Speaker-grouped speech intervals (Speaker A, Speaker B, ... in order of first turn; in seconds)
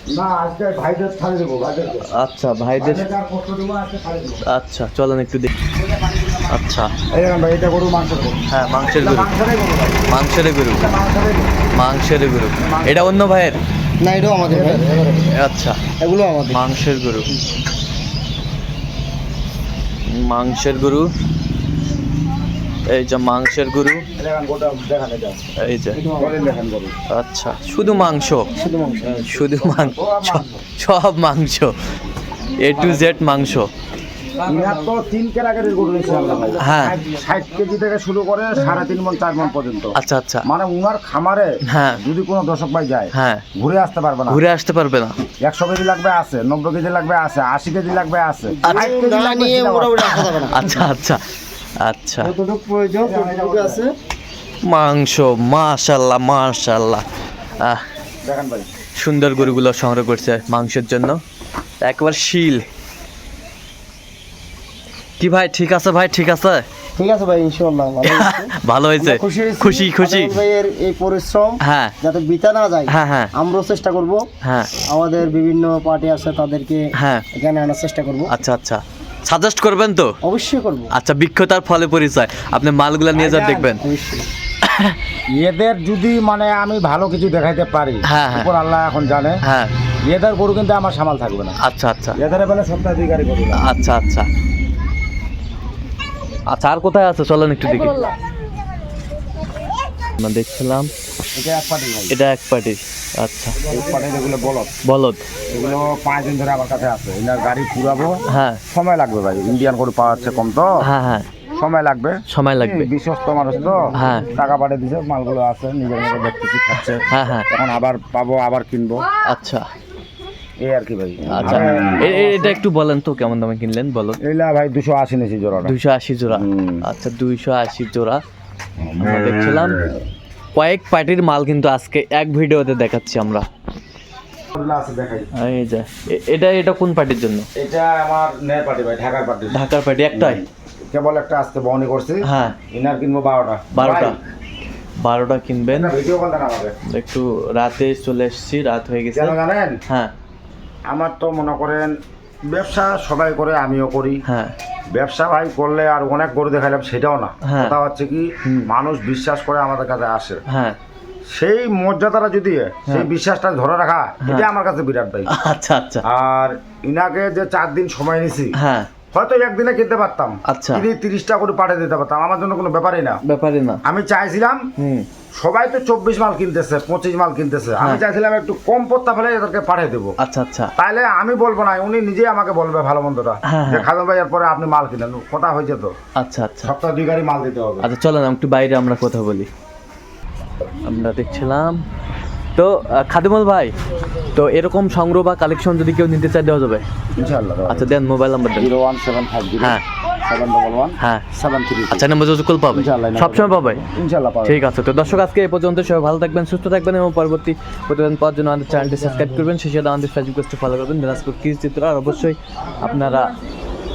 Speaker A: 0.1-2.1, 2.8-4.4, 5.7-6.5, 7.1-8.4, 8.9-10.1, 10.7-11.6, 12.6-13.1, 14.5-15.3, 24.2-25.5, 26.2-27.0, 29.7-30.6, 34.4-44.4, 45.4-50.1, 53.0-53.8, 58.2-58.7, 83.1-83.7, 85.4-89.4, 90.1-91.6, 92.2-93.8, 101.3-102.2, 103.7-104.7, 105.5-108.2, 108.7-110.9, 111.6-119.1, 120.6-122.5, 124.2-125.7, 126.3-126.8, 134.6-135.3, 137.6-139.6, 140.1-144.2, 145.7-146.7, 149.1-149.8, 150.9-151.9, 152.5-154.2, 154.9-160.4, 161.3-165.3, 166.0-168.6, 169.1-173.2, 173.8-174.6, 175.4-180.1, 180.8-185.9, 186.6-187.9, 197.2-197.9, 198.6-202.1, 202.7-204.7
Speaker B: 2.1-3.1, 4.5-5.5, 6.5-6.9, 8.5-9.3, 10.1-10.9, 11.8-13.6, 15.4-15.8, 16.5-17.3, 20.1-21.1, 22.9-24.0, 25.6-26.0, 27.1-28.6, 29.2-31.7, 32.6-33.7, 36.6-37.0, 40.0-40.5, 41.7-42.0, 43.1-43.5, 44.3-45.2, 50.0-51.2, 51.8-52.3, 54.7-57.0, 59.0-61.2, 61.8-62.6, 65.2-66.7, 68.0-70.4, 71.6-72.0, 72.9-73.3, 74.4-74.7, 77.0-77.3, 78.3-80.1, 80.9-83.8, 84.7-85.0, 88.1-88.5, 89.4-89.7, 91.7-92.2, 93.6-94.3, 96.5-98.2, 100.2-100.9, 102.1-103.6, 104.8-105.3, 108.3-108.6, 110.8-111.3, 112.3-112.9, 113.9-114.3, 117.1-117.5, 119.3-119.7, 121.3-124.2, 125.6-128.2, 129.0-129.9, 130.6-133.5, 135.3-137.5, 139.5-140.4, 142.2-142.6, 143.7-144.2, 145.0-146.0, 146.9-149.4, 154.3-154.5, 157.5-157.8, 160.5-160.8, 165.3-166.0, 168.6-168.9, 170.5-170.9, 173.3-173.8, 174.8-175.1, 180.2-180.7, 183.5-183.9, 186.2-186.7, 187.8-189.5, 190.9-191.8, 192.6-193.7, 194.3-196.8, 197.7-198.7, 201.0-201.3, 201.9-203.8, 204.4-213.4
Speaker C: 14.0-14.8, 16.0-16.6, 25.9-26.5, 28.6-29.3, 48.6-50.9, 52.2-53.9, 67.0-74.2, 74.9-78.3, 80.2-80.9, 83.7-84.3, 208.8-209.5